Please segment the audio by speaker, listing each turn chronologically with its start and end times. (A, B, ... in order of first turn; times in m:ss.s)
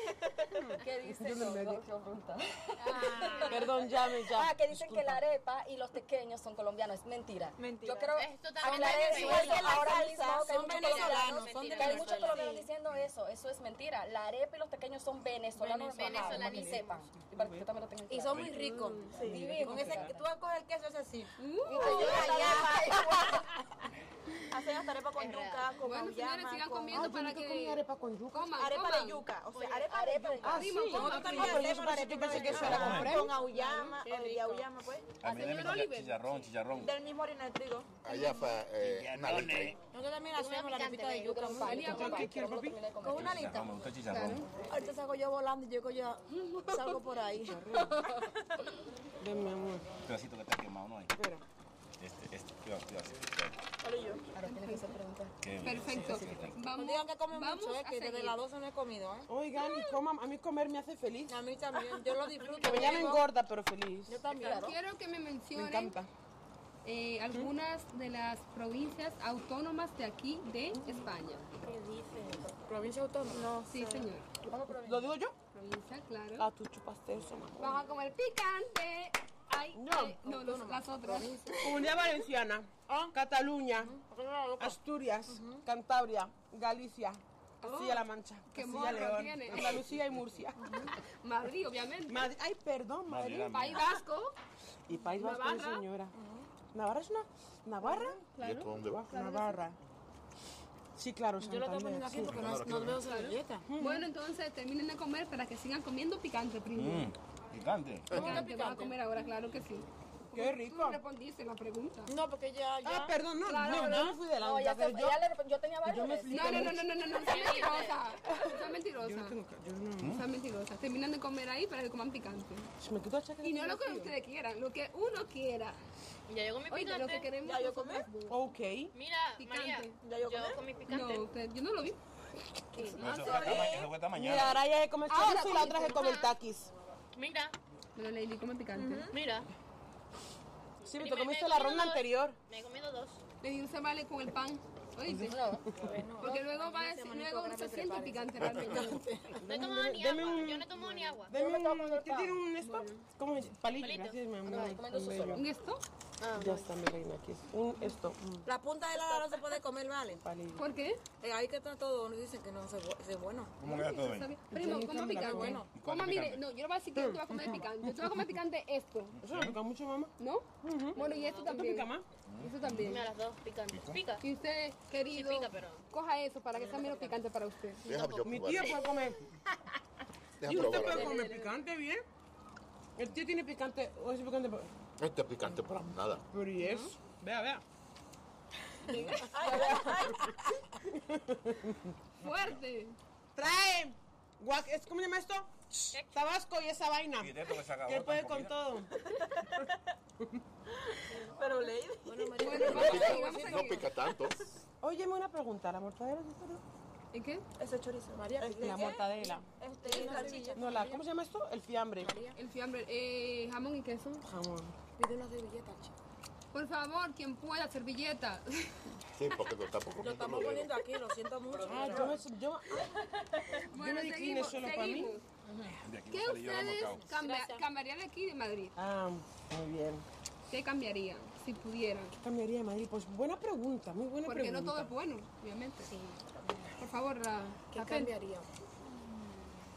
0:00.6-0:01.8 A
0:00.8-0:18.5 B
0:02.8-0:03.8 C
0:02.9-0:03.6 D
0:03.4-0:05.2 A
0:07.6-0:08.9 D
0:08.1-0:10.0 C
0:08.6-0:12.5 E
0:09.4-0:10.4 D
0:10.7-0:12.7 C
0:15.7-0:17.0 C
0:16.1-0:16.7 E
0:17.2-0:17.6 A
0:18.1-0:23.0 E
0:18.5-0:19.1 F
0:19.1-0:19.5 D
0:19.2-0:20.3 B
0:19.6-0:20.0 G
0:21.4-0:22.3 F
0:21.7-0:23.5 B
0:21.8-0:23.4 D
0:24.5-0:27.1 D
0:25.2-0:25.7 C
0:25.8-0:29.2 F
0:26.9-0:28.6 A
0:28.6-0:30.6 D
0:29.5-0:30.3 C
0:29.9-0:30.6 B
0:30.4-0:33.3 A
0:30.6-0:31.9 F
0:30.9-0:34.7 E
0:32.2-0:35.1 D
0:32.6-0:33.3 G
0:35.2-0:37.0 G
0:35.2-0:35.8 B
0:35.3-0:36.5 F
0:36.7-0:37.9 D
0:38.0-0:39.8 H
0:38.7-0:39.8 G
0:39.9-0:42.2 E
0:40.4-0:41.9 C
0:41.2-0:43.7 B
0:41.6-0:42.3 F
0:41.8-0:43.0 A
0:43.0-0:43.9 E
0:43.1-0:44.5 G
0:44.1-0:44.5 F
0:44.6-0:47.7 E
0:46.4-0:47.0 B
0:47.5-0:48.0 A
0:47.7-0:48.3 B
0:49.2-0:49.8 A
0:50.1-0:51.2 G
0:51.2-0:51.4 A
0:52.0-0:53.6 G
0:53.8-0:54.2 D
0:54.4-0:55.4 B
0:54.4-0:55.0 F
0:55.4-0:56.6 G
0:55.6-0:58.4 F
0:56.0-0:56.6 B
0:56.6-0:59.3 E
0:59.3-1:01.4 A
0:59.6-1:00.0 F
1:01.3-1:03.3 E
1:02.6-1:03.0 D
1:02.6-1:04.3 A
1:04.1-1:04.6 D
1:04.3-1:04.8 B
1:04.4-1:06.0 F
1:05.6-1:06.1 A
1:06.8-1:11.5 F
1:11.6-1:12.5 C
1:12.6-1:13.6 E
1:13.3-1:15.0 D
1:13.7-1:14.3 F
1:14.8-1:15.4 A
1:15.5-1:16.5 F
1:16.4-1:17.8 A
1:17.6-1:21.7 F
1:19.8-1:20.2 A
1:20.2-1:21.9 E
1:21.6-1:24.0 A
1:22.9-1:23.2 E
1:23.7-1:25.7 E
1:24.6-1:30.9 A
1:27.6-1:29.8 F
1:30.6-1:30.9 E
1:31.2-1:32.3 F
1:32.1-1:33.8 A
1:33.1-1:34.0 G
1:33.4-1:34.4 F
1:34.9-1:38.2 A
1:35.1-1:35.9 F
1:36.1-1:36.5 E
1:37.8-1:39.6 F
1:38.4-1:39.1 H
1:39.0-1:39.8 A
1:41.0-1:42.4 A
1:41.4-1:43.7 E
1:42.2-1:43.0 G
1:43.0-1:47.1 F
1:43.7-1:44.1 A
1:46.7-1:48.4 G
1:48.1-1:52.1 F
1:48.1-1:49.0 E
1:50.3-1:51.0 A
1:52.1-1:53.2 E
1:52.8-1:55.2 A
1:53.4-1:54.2 F
1:54.4-1:56.8 B
1:55.8-1:56.9 A
1:56.3-1:59.4 F
1:57.1-1:58.2 C
1:58.3-2:00.1 A
2:00.0-2:00.3 G
2:00.0-2:02.7 F
2:02.8-2:04.1 A
2:03.4-2:05.8 F
2:06.3-2:07.4 C
2:06.7-2:08.4 F
2:07.4-2:08.1 D
2:08.3-2:08.9 A
2:08.9-2:11.3 C
2:09.4-2:10.0 F
2:10.0-2:10.6 D
2:10.9-2:12.0 F
2:12.8-2:13.6 C
2:12.8-2:13.8 F
2:12.9-2:14.0 D
2:13.0-2:14.6 G
2:14.1-2:16.7 A
2:15.1-2:16.3 F
2:17.1-2:17.6 C
2:18.0-2:19.1 F
2:18.8-2:19.2 D
2:19.1-2:19.5 C
2:20.8-2:22.4 A
2:21.0-2:23.2 C
2:23.4-2:25.4 F
2:25.1-2:25.9 A
2:25.3-2:25.7 B
2:25.8-2:29.4 E
2:26.2-2:29.0 F
2:29.4-2:35.4 A
2:29.4-2:31.4 C
2:31.3-2:32.4 B
2:32.6-2:33.0 F
2:33.7-2:34.8 C
2:34.4-2:35.4 B
2:35.3-2:35.8 F
2:36.2-2:36.8 C
2:36.3-2:38.5 A
2:38.5-2:40.2 E
2:40.2-2:40.6 A
2:40.6-2:41.0 F
2:41.2-2:43.5 E
2:43.6-2:44.4 G
2:43.6-2:49.2 F
2:44.5-2:45.6 A
2:45.1-2:45.7 E
2:45.7-2:46.4 G
2:47.0-2:48.2 A
2:49.2-2:49.6 G
2:49.2-2:50.1 A
2:50.2-2:53.0 F
2:50.6-2:52.1 A
2:51.0-2:51.6 C
2:52.3-2:53.0 G
2:52.8-2:54.2 C
2:53.7-2:54.0 G
2:54.2-2:57.9 F
2:55.1-2:55.8 C
2:56.7-2:57.1 C
2:57.8-2:58.9 H
2:57.9-2:59.1 C
2:58.2-2:59.8 A
3:00.4-3:01.3 H
3:00.4-3:02.0 A
3:00.8-3:01.4 B
3:03.0-3:04.7 A
3:05.0-3:06.2 H
3:06.3-3:07.6 A
3:06.6-3:06.9 F
3:08.9-3:09.2 F
3:09.2-3:10.3 D
3:09.3-3:10.1 B
3:09.4-3:10.2 E
3:10.9-3:11.9 A
3:12.2-3:13.0 F
3:13.4-3:18.9 A
3:15.9-3:16.2 C
3:17.2-3:18.7 G
3:19.0-3:19.8 D
3:21.1-3:23.0 D
3:22.0-3:23.9 E
3:22.4-3:23.8 F
3:22.6-3:24.4 H
3:24.8-3:26.6 A
3:27.1-3:27.4 F
3:27.6-3:30.6 D
3:28.1-3:31.0 E
3:28.6-3:29.5 A
3:30.6-3:32.1 A
3:32.0-3:32.4 E
3:32.3-3:34.3 F
3:34.2-3:34.8 A
3:35.0-3:35.9 E
3:36.5-3:39.0 F
3:39.2-3:40.8 H
3:40.0-3:42.2 E
3:41.6-3:43.0 A
3:43.7-3:45.2 F
3:43.7-3:45.2 A
3:45.4-3:45.8 E
3:45.8-3:47.0 G
3:46.1-3:48.8 F
3:46.6-3:47.7 E
3:48.8-3:50.0 A
3:50.5-3:52.2 F
3:52.2-3:54.9 A
3:54.2-3:55.9 F
3:56.8-3:58.1 F
3:57.8-3:58.4 E